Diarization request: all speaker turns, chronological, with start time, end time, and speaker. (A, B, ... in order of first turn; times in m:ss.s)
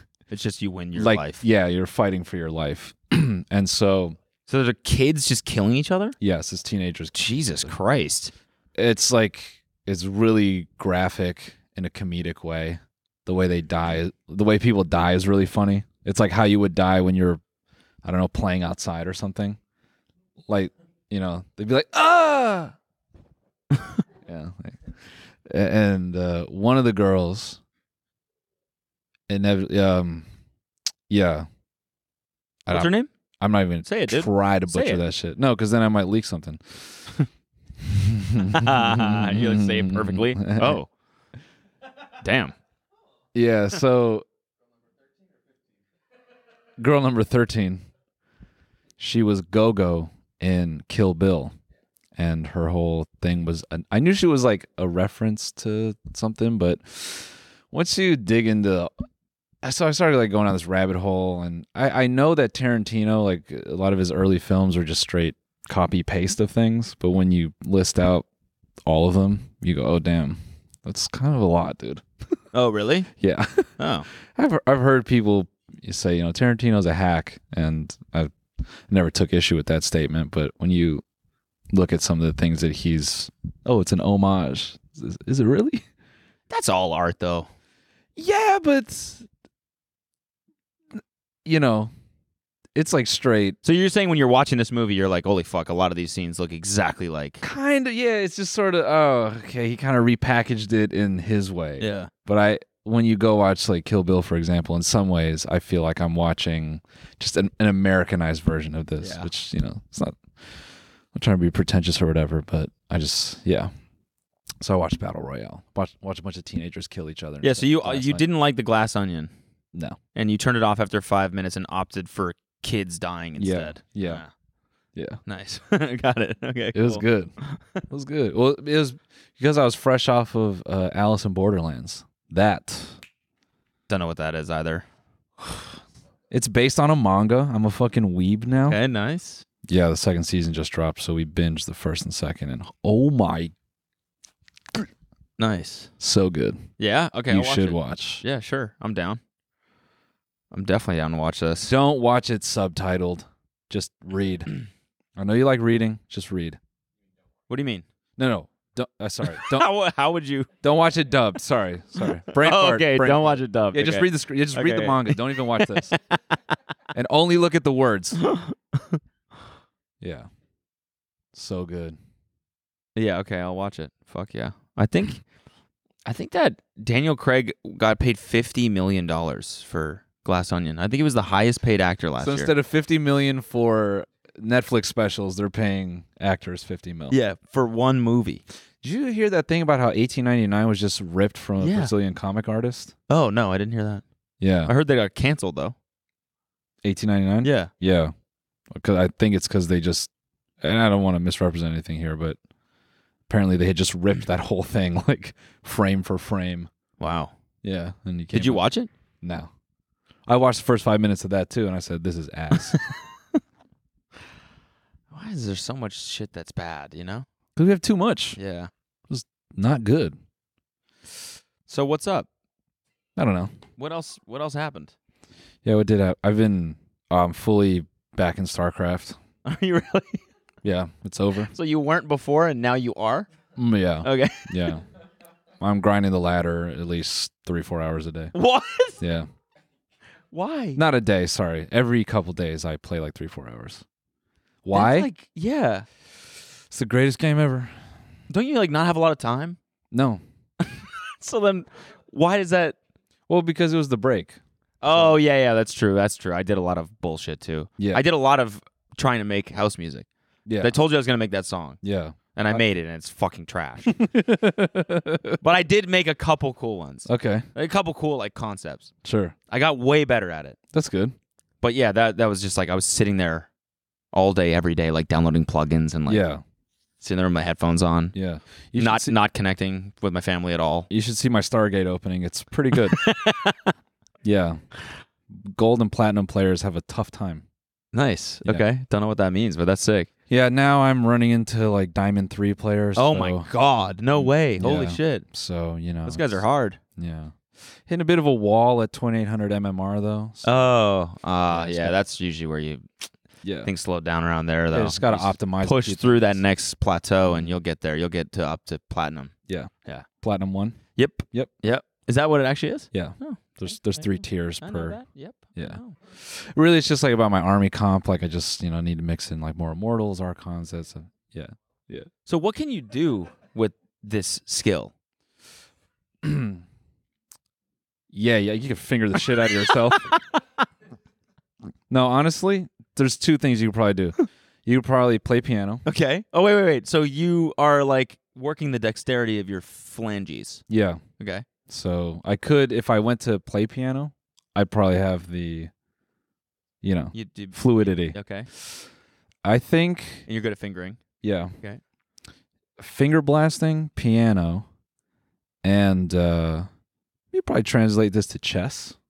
0:00.3-0:01.4 A
0:01.0-0:04.2 B
0:04.5-0:06.2 A
0:06.2-0:07.8 B
0:07.2-0:08.3 A
0:08.8-0:17.4 B
0:18.0-0:19.6 B
0:20.5-0:22.7 B
0:24.3-0:24.9 B
0:25.4-0:27.6 B
0:29.3-0:30.3 B
0:31.1-0:31.5 B
0:32.7-0:37.1 B
0:32.7-0:33.1 A
0:33.8-0:35.0 A
0:37.8-0:40.8 B
0:38.4-0:40.9 A
0:42.2-0:42.6 A
0:43.3-0:44.3 B
0:46.8-0:47.8 B
0:49.0-0:51.6 B
0:52.2-0:58.9 B
0:59.6-1:08.3 B
1:08.8-1:12.0 B
1:12.5-1:13.1 A
1:13.2-1:18.3 B
1:13.8-1:14.1 A
1:18.9-1:21.0 B
1:21.7-1:25.8 B
1:26.5-1:27.5 A
1:28.2-1:29.3 B
1:31.0-1:31.9 B
1:32.8-1:33.6 B
1:33.6-1:37.4 A
1:37.4-1:53.7 B
1:41.8-1:42.1 A
1:49.0-1:49.3 A
1:54.6-1:58.3 B
1:57.4-1:59.3 A
2:00.2-2:04.3 A
2:03.4-2:04.2 B
2:05.0-2:05.2 B
2:05.3-2:07.6 A
2:06.7-2:13.0 B
2:13.9-2:14.9 A
2:15.4-2:15.7 B
2:16.3-2:18.8 B
2:18.6-2:19.4 A
2:19.7-2:23.5 B
2:25.4-2:25.9 A
2:26.0-2:26.7 B
2:26.8-2:29.2 A
2:27.3-2:28.2 B
2:30.5-2:31.8 A
2:31.6-2:34.5 B
2:35.2-2:36.6 B
2:37.5-2:37.8 A
2:38.2-2:39.7 B
2:39.2-2:40.5 A
2:40.6-2:46.0 B
2:42.3-2:46.4 A
2:46.9-2:48.3 B
2:48.2-2:49.0 A
2:50.0-2:50.3 B
2:51.3-2:52.0 B
2:53.0-2:55.2 A
2:56.0-3:02.5 A
3:02.2-3:07.2 B
3:07.1-3:08.4 A
3:08.8-3:13.0 B
3:11.6-3:11.9 A
3:13.1-3:14.0 A
3:14.4-3:14.7 B
3:14.6-3:15.8 A
3:16.8-3:18.1 B
3:17.4-3:17.7 A
3:18.7-3:20.1 B
3:20.6-3:22.4 B
3:23.3-3:26.7 B
3:27.0-3:27.3 A
3:27.6-3:28.6 B
3:28.3-3:28.9 A
3:29.2-3:29.5 B
3:30.3-3:32.8 B
3:35.1-3:37.3 A
3:37.6-3:38.4 B
3:38.4-3:38.7 A
3:39.1-3:40.2 B
3:41.7-3:42.3 A
3:43.2-3:43.5 B
3:43.8-3:44.9 A
3:45.6-3:49.2 B
3:49.4-3:50.2 A
3:50.6-3:51.5 B
3:51.5-3:53.3 A
3:53.6-3:54.8 B
3:54.0-3:54.7 A
3:55.6-3:58.3 B
3:58.3-3:59.0 A
3:59.0-3:59.3 B
4:00.3-4:00.8 A
4:00.8-4:03.8 B
4:04.6-4:05.1 B
4:04.7-4:05.9 A
4:06.7-4:07.8 B
4:08.3-4:09.6 A
4:09.9-4:10.2 B
4:10.6-4:12.8 A
4:13.3-4:15.2 B
4:14.8-4:20.1 A
4:17.8-4:18.0 B
4:20.5-4:20.8 B
4:20.6-4:21.8 A
4:21.8-4:22.6 B
4:22.4-4:24.0 A
4:23.9-4:25.4 B
4:25.4-4:28.9 A
4:27.1-4:27.5 B
4:29.0-4:29.4 B
4:29.5-4:30.6 A
4:30.7-4:31.2 B
4:31.6-4:33.5 A
4:34.1-4:36.2 A
4:36.1-4:36.4 B
4:37.0-4:38.2 A
4:38.1-4:39.2 B
4:38.8-4:40.9 A
4:40.9-4:43.1 B
4:42.8-4:43.7 A
4:44.2-4:44.6 B
4:45.3-4:47.4 B
4:47.9-4:50.1 A
4:50.3-4:53.5 B
4:53.0-4:55.3 A
4:54.2-4:56.4 B
4:56.1-4:56.8 A
4:57.0-5:00.7 B
5:00.4-5:03.1 A
5:01.5-5:02.0 B
5:03.4-5:03.7 B
5:03.6-5:09.3 A
5:04.7-5:06.4 B
5:07.3-5:07.5 B
5:09.5-5:10.8 B
5:11.0-5:16.0 A
5:12.9-5:15.0 B
5:15.6-5:22.1 B
5:22.3-5:24.9 A
5:26.2-5:26.6 B
5:28.1-5:30.1 B
5:31.9-5:35.8 B
5:35.9-5:40.6 A
5:40.7-5:41.0 B
5:41.2-5:41.5 A
5:41.7-5:45.7 B
5:46.8-5:48.9 B
5:47.1-5:48.5 A
5:49.4-5:50.3 B
5:50.3-5:51.0 A
5:51.2-5:51.5 B
5:52.8-5:54.7 B
5:55.6-5:56.7 B
5:57.3-5:59.0 B